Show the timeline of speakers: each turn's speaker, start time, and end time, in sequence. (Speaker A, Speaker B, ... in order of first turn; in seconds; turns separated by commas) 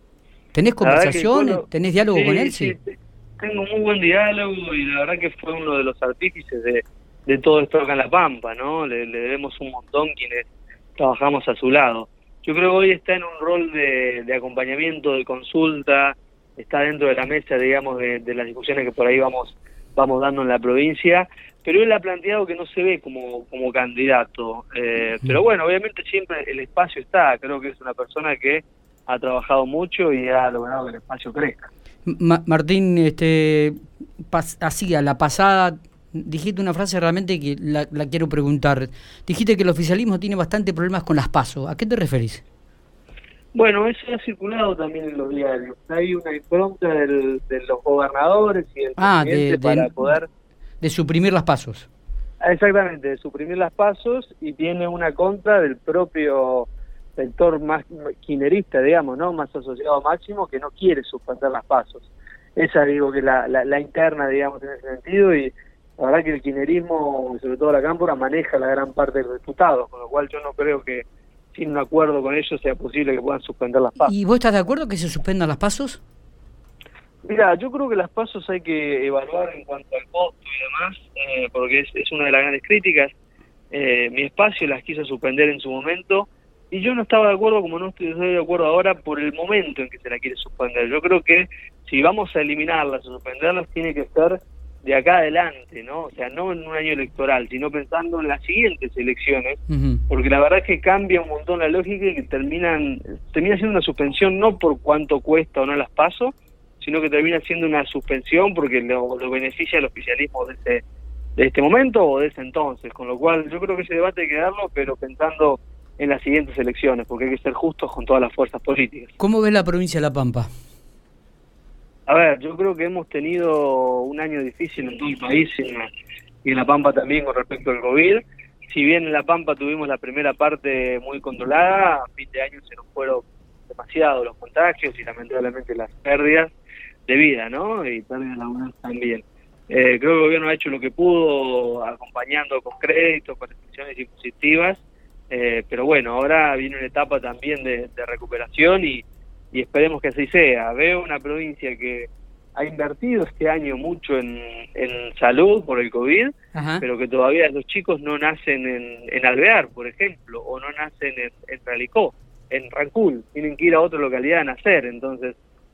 Speaker A: 0.5-2.8, Speaker B: 0.8-31.7, Speaker A: 32.1-42.4, Speaker B: 43.5-50.3, Speaker A: 49.0-50.1, Speaker A: 50.8-51.9, Speaker B: 52.4-74.1, Speaker A: 74.0-76.0, Speaker B: 77.2-83.1, Speaker B: 83.7-110.8, Speaker A: 99.7-100.0, Speaker B: 111.4-119.2, Speaker A: 119.2-120.5, Speaker B: 122.1-125.9, Speaker B: 126.5-136.5, Speaker B: 137.1-165.4, Speaker A: 156.5-156.8